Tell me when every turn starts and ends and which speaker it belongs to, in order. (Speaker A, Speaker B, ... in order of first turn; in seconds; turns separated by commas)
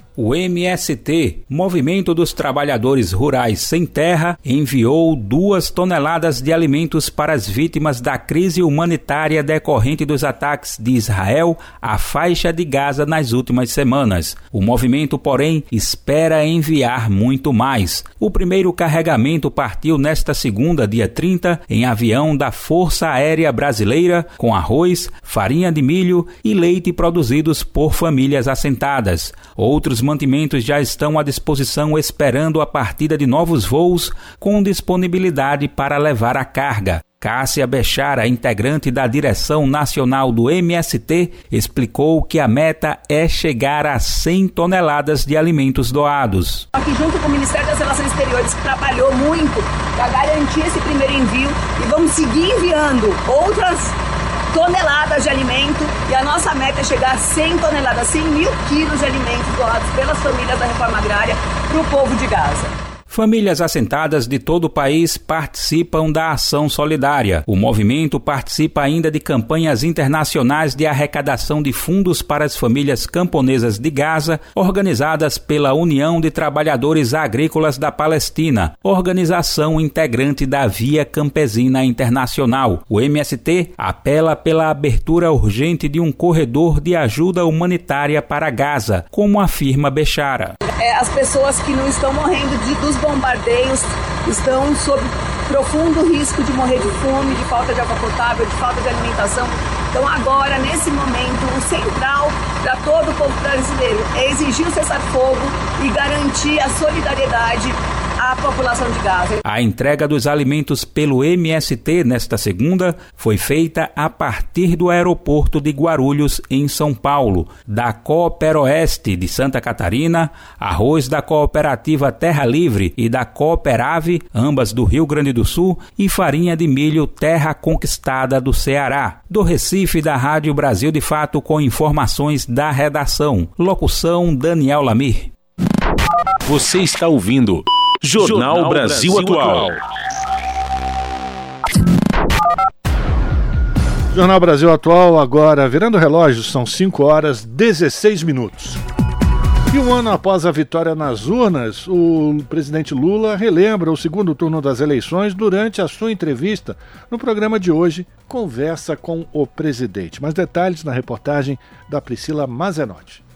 Speaker A: 0.2-46.7, Speaker B: 46.7-54.0, Speaker B: 54.5-62.8, Speaker A: 63.1-90.6, Speaker B: 90.8-109.4, Speaker A: 109.4-135.3, Speaker C: 136.4-139.8, Speaker D: 144.1-148.8, Speaker D: 149.7-163.2